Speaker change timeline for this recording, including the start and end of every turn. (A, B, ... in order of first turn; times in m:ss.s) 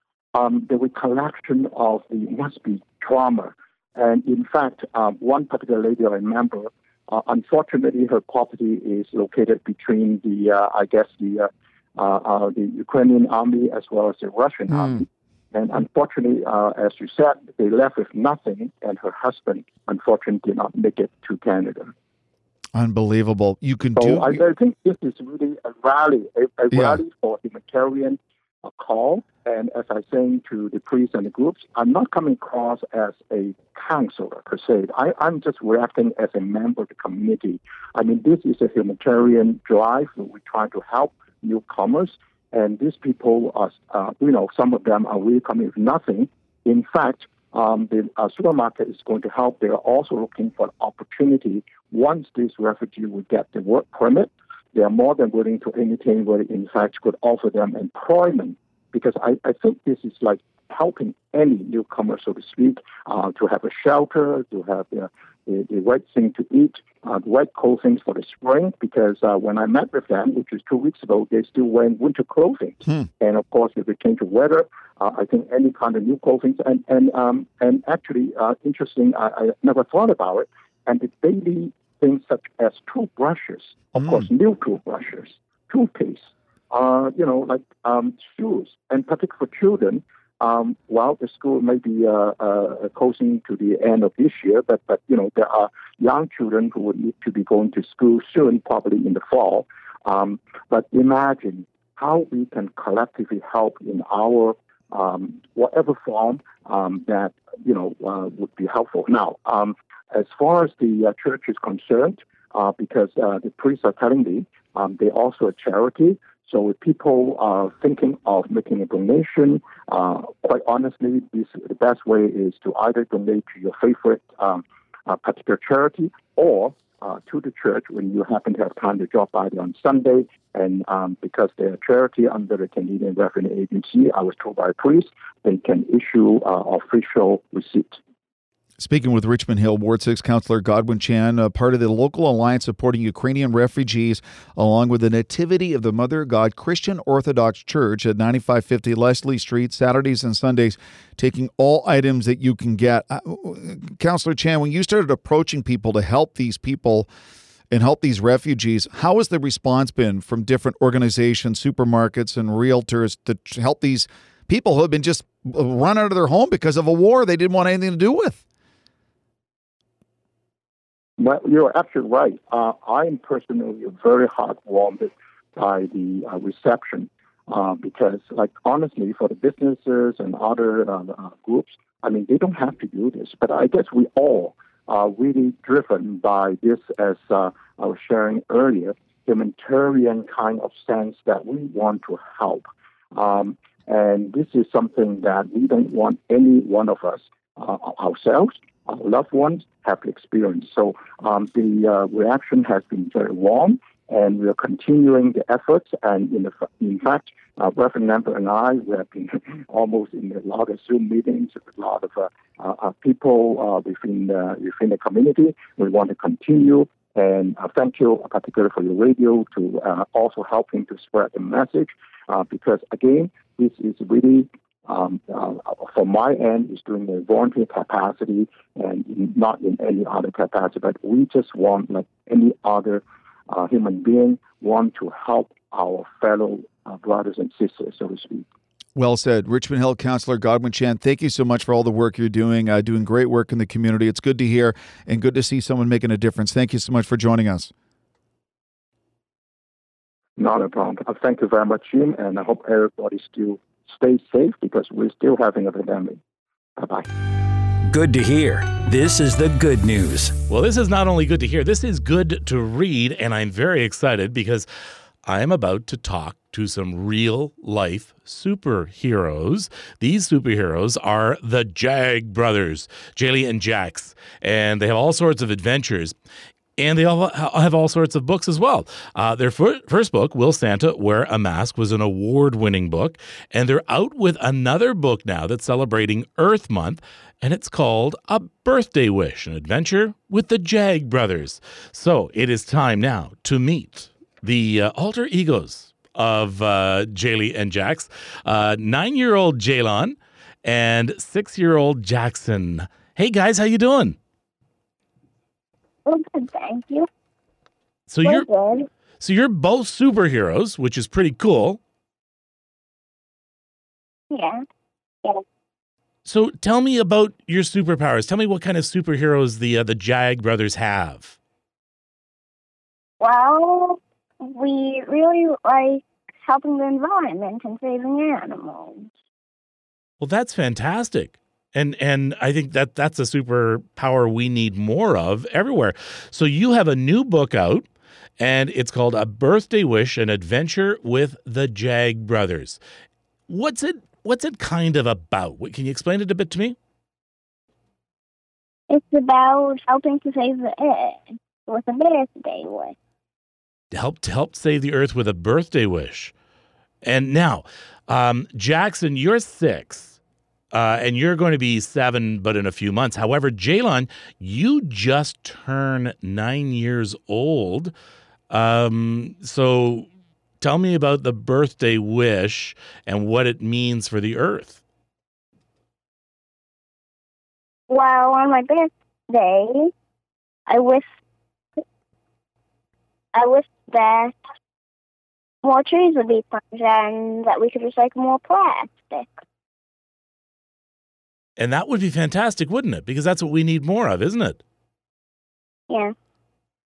0:00.3-0:21.9 A
0:14.7-0:15.0 B
0:22.7-0:24.4 B
0:24.0-2:18.0 A
0:26.7-0:27.0 B
1:23.9-1:24.3 B
2:18.8-2:37.1 B
2:37.7-2:48.4 B
2:51.2-3:58.4 A
3:59.0-4:07.7 B
4:10.4-4:16.2 A
4:16.8-4:17.0 A
4:17.8-4:20.4 C
4:20.5-4:24.7 D
4:25.2-4:36.1 D
4:36.8-5:04.2 D
5:06.0-5:07.1 E
5:08.1-5:08.5 D
5:08.2-5:08.9 E
5:09.2-5:11.8 D
5:14.3-5:14.6 E
5:16.2-5:21.4 D
5:23.2-5:29.1 E
5:30.2-5:37.9 D
5:38.4-5:42.8 D
5:43.5-5:46.8 D
5:48.9-5:52.9 E
5:53.9-5:56.3 D
5:57.0-6:00.2 D
6:00.7-6:07.9 D
6:08.5-6:10.1 D
6:10.6-6:14.8 D
6:17.9-6:19.9 E
6:20.7-6:21.1 E
6:23.3-6:24.4 E
6:25.6-6:29.3 E
6:31.6-6:34.6 D